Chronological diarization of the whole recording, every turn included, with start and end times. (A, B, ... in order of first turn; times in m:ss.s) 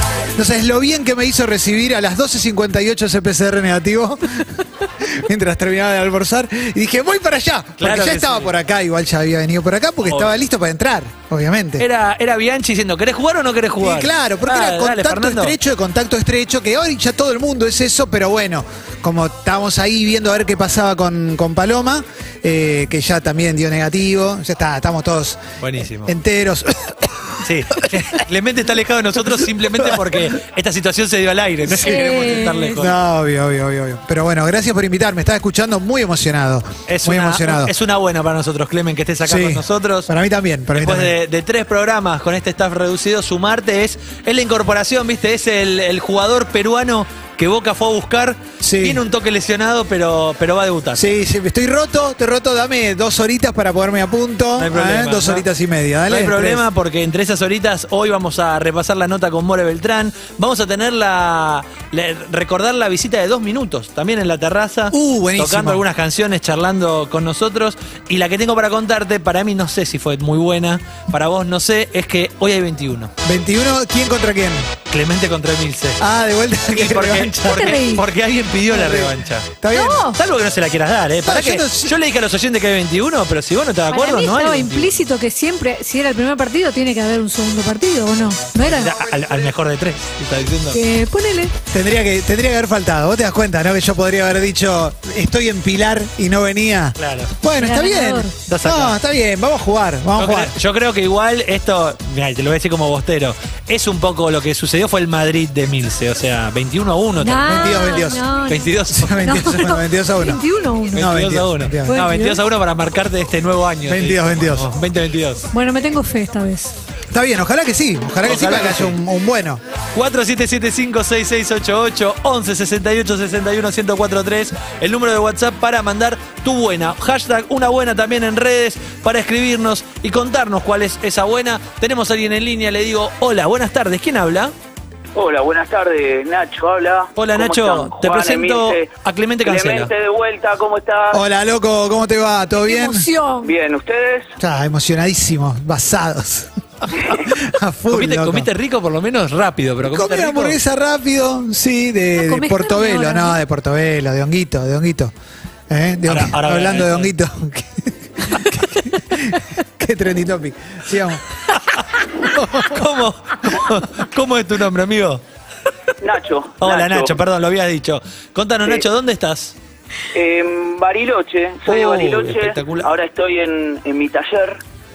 0:00.4-0:11.8 A
0:07.8-0:08.5 B
0:10.0-0:10.3 B
0:11.8-0:15.6 B
0:13.8-0:25.4 A
0:25.6-0:26.1 B
0:26.0-0:28.0 A
0:27.4-0:32.9 B
0:29.7-0:30.2 A
0:31.7-0:32.1 A
0:31.8-0:32.7 C
0:32.8-0:37.7 A
0:36.9-0:40.1 B
0:39.2-0:41.1 A
0:40.8-0:51.1 B
0:48.6-0:49.0 A
0:50.9-0:56.6 A
0:54.6-0:55.4 B
0:56.1-1:13.1 B
1:04.9-1:05.8 A
1:13.2-1:14.7 A
1:14.9-1:16.0 B
1:16.0-1:17.8 A
1:16.7-1:19.5 B
1:17.5-1:18.0 C
1:18.7-1:20.0 A
1:19.7-1:20.2 C
1:20.2-1:24.9 B
1:21.2-1:22.0 A
1:23.9-1:28.9 C
1:28.6-1:30.8 B
1:30.7-1:31.5 C
1:31.7-1:40.5 A
1:37.0-1:37.3 B
1:37.5-1:38.3 C
1:38.5-1:39.0 B
1:40.2-1:49.3 B
1:47.2-1:51.1 C
1:47.4-1:48.2 A
1:48.9-1:52.0 A
1:50.9-1:55.5 B
1:51.9-1:52.4 C
1:53.9-1:54.7 A
1:55.5-1:56.7 C
1:57.1-1:59.6 A
1:58.2-1:59.0 B
1:59.9-2:14.5 B
2:15.1-2:18.9 D
2:17.2-2:19.9 B
2:19.4-2:21.2 D
2:21.1-2:23.1 A
2:22.6-2:23.5 C
2:23.4-2:24.3 D
2:24.4-2:26.5 A
2:27.1-2:28.5 A
2:27.9-2:30.6 B
2:29.8-2:35.1 A
2:32.2-2:33.4 C
2:35.7-2:41.3 A
2:36.0-2:37.1 B
2:41.5-2:45.2 B
2:46.0-2:47.2 D
2:46.6-2:49.6 B
2:50.1-2:54.6 D
2:51.6-2:52.9 B